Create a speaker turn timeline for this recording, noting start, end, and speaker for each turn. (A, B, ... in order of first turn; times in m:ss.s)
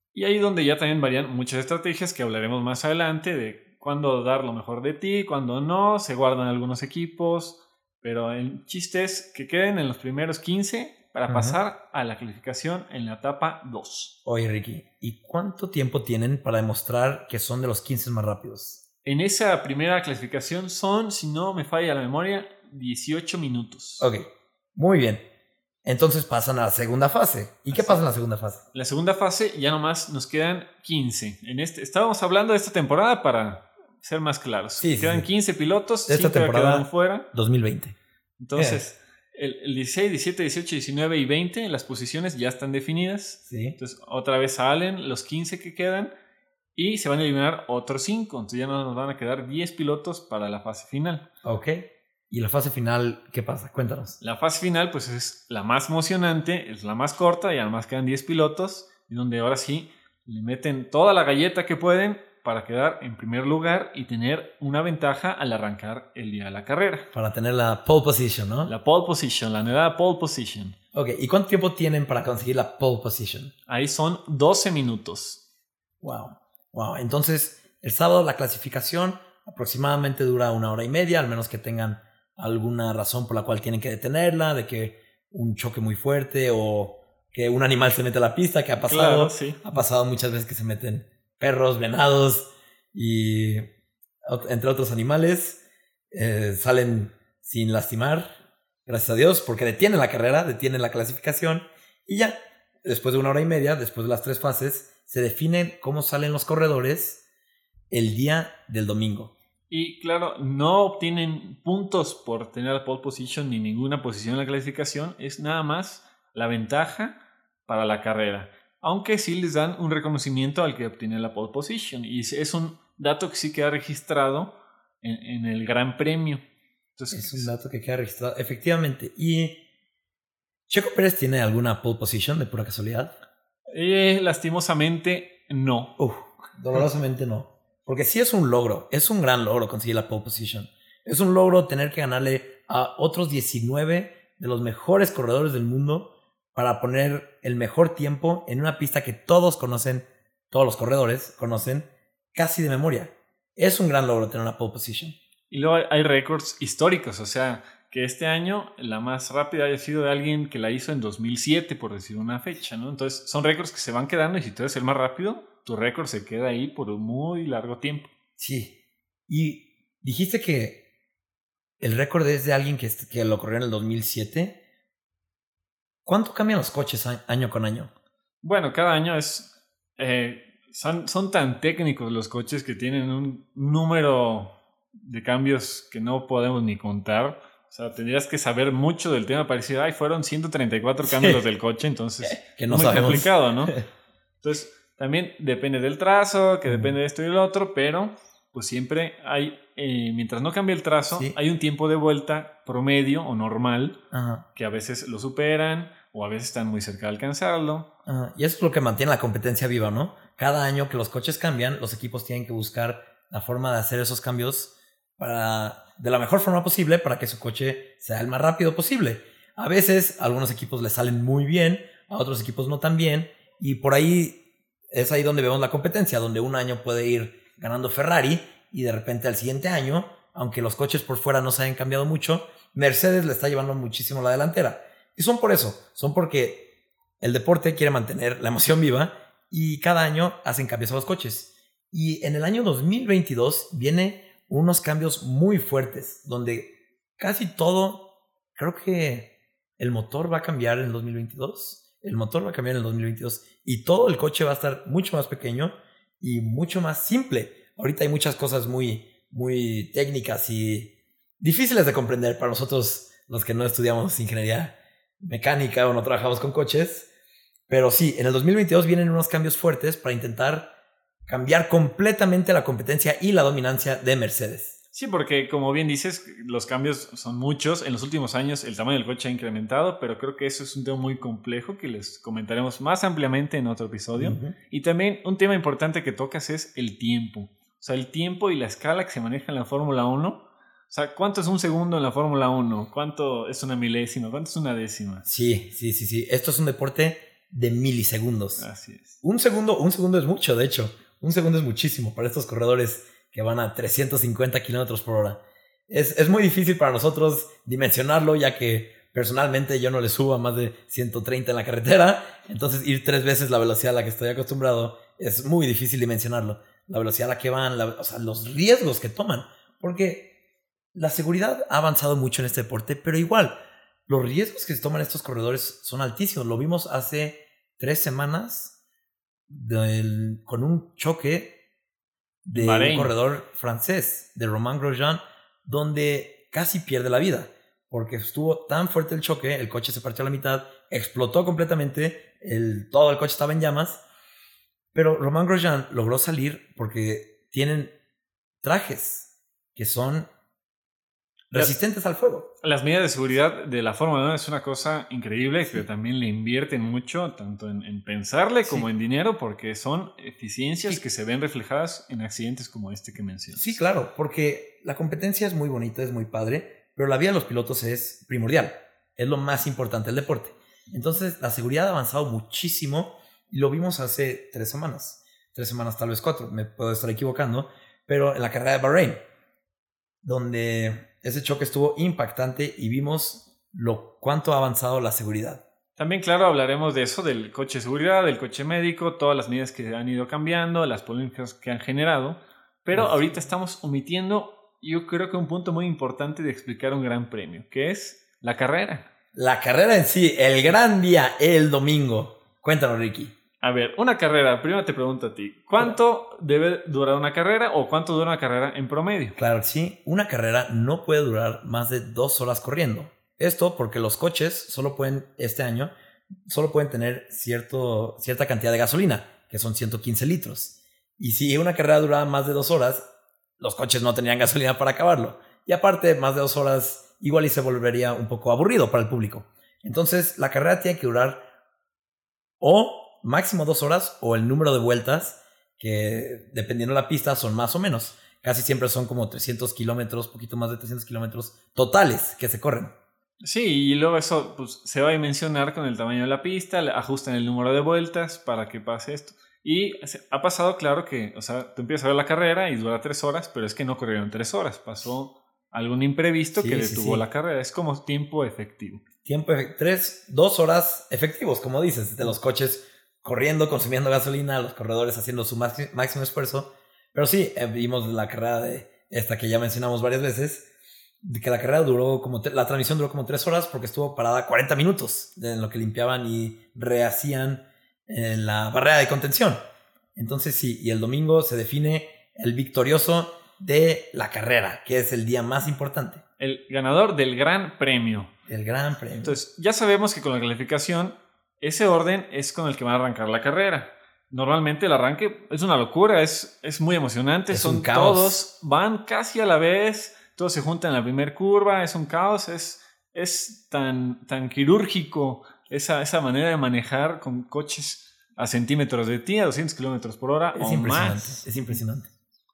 0:00.2-0:14.1 A
0:11.3-0:11.6 B
0:14.2-0:18.8 B
0:19.0-0:24.1 A
0:24.0-0:25.2 B
0:25.8-0:28.6 B
0:27.7-0:28.0 A
0:28.7-0:37.3 A
0:34.8-0:35.3 B
0:36.1-0:38.0 B
0:38.4-0:46.1 A
0:38.6-0:38.8 B
0:43.5-0:43.8 B
0:46.8-0:51.2 A
0:51.4-0:54.2 B
0:54.2-1:07.1 A
1:07.1-1:08.7 B
1:08.7-1:10.8 A
1:10.9-1:13.5 B
1:13.7-1:15.4 A
1:16.0-1:33.7 B
1:28.8-1:29.6 A
1:34.3-1:38.3 B
1:38.9-1:47.2 B
1:47.9-1:49.3 B
1:49.7-1:57.2 A
1:57.7-2:06.4 A
2:07.0-2:07.5 A
2:07.1-2:09.6 B
2:10.7-2:13.1 B
2:13.7-2:16.0 A
2:16.0-2:35.2 B
2:35.5-2:48.1 A
2:48.4-2:48.8 B
2:49.3-2:50.8 B
2:51.8-2:54.6 B
2:56.1-2:57.9 B
2:58.4-3:13.8 A
3:11.0-3:11.4 B
3:12.3-3:13.8 B
3:14.4-3:24.0 A
3:16.7-3:17.0 B
3:21.1-3:21.4 B
3:24.1-3:24.5 B
3:24.6-3:27.9 A
3:28.1-3:56.7 B
3:57.2-4:27.1 B
4:27.7-4:30.7 B
4:31.3-4:34.8 B
4:34.9-4:55.3 A
4:44.2-4:44.6 B
4:55.2-4:58.7 B
4:58.6-4:59.2 A
4:59.2-5:20.3 B
5:20.9-5:28.8 B
5:29.5-5:31.6 B
5:32.4-5:44.0 B
5:32.5-5:33.1 A
5:44.9-5:47.9 B
5:48.6-5:50.3 B
5:51.5-5:52.5 B
5:52.6-6:03.8 A
6:03.5-6:19.2 B
6:20.2-6:25.6 B
6:26.0-6:39.1 A
6:32.9-6:33.4 B
6:39.3-6:43.3 B
6:43.6-6:49.4 A
6:49.4-6:55.9 B
6:56.5-7:03.1 B
7:03.6-7:11.4 B
7:12.6-7:22.9 B
7:23.4-7:39.0 A
7:36.6-7:37.2 B
7:39.2-7:50.7 B
7:51.2-7:59.6 B
8:00.2-8:06.2 B
8:06.4-8:08.3 A
8:08.5-8:09.4 B
8:09.2-8:31.5 A
8:17.5-8:18.4 B
8:30.6-8:32.1 B